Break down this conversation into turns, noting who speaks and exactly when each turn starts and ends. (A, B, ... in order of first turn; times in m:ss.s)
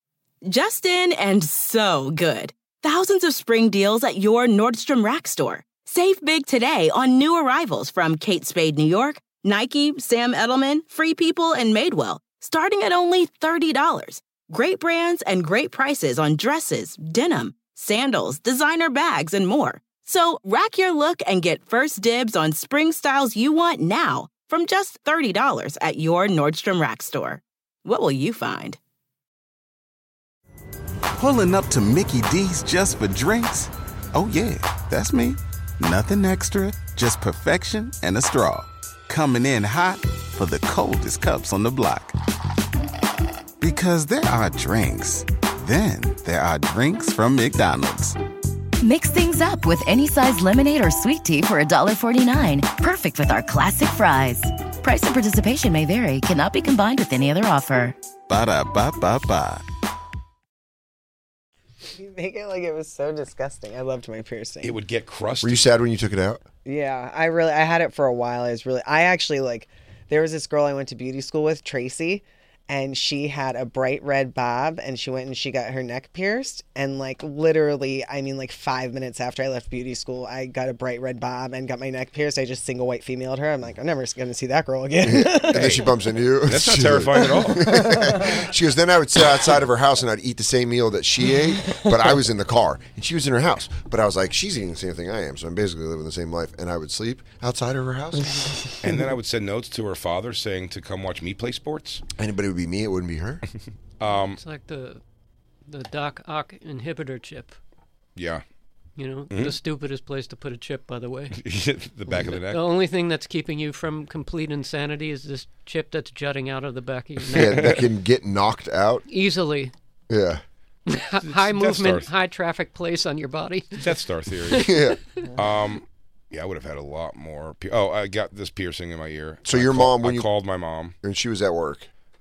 0:00.4-0:28.8 A
0:31.1-0:42.2 B
0:43.6-0:48.2 B
0:48.8-0:58.0 C
0:58.3-0:59.6 B
1:01.9-1:04.8 D
1:04.6-1:05.7 E
1:05.4-1:06.4 F
1:06.7-1:25.9 D
1:25.0-1:38.5 F
1:25.4-1:25.9 E
1:26.5-1:28.0 E
1:27.2-1:28.5 D
1:31.7-1:32.0 D
1:38.8-1:42.0 E
1:42.2-1:43.4 F
1:44.0-1:44.4 E
1:44.2-1:45.0 G
1:45.7-1:47.6 G
1:48.2-1:48.4 E
1:49.0-1:51.4 G
1:49.3-1:49.6 E
1:51.3-1:52.6 E
1:52.3-1:57.8 G
1:57.3-1:57.8 E
1:57.3-1:59.0 F
1:59.1-1:59.7 G
2:00.1-2:00.4 F
2:00.9-2:03.9 G
2:01.2-2:02.1 E
2:03.8-2:04.8 E
2:04.6-2:05.0 F
2:05.4-2:11.0 E
2:09.5-2:10.3 F
2:11.0-2:11.9 F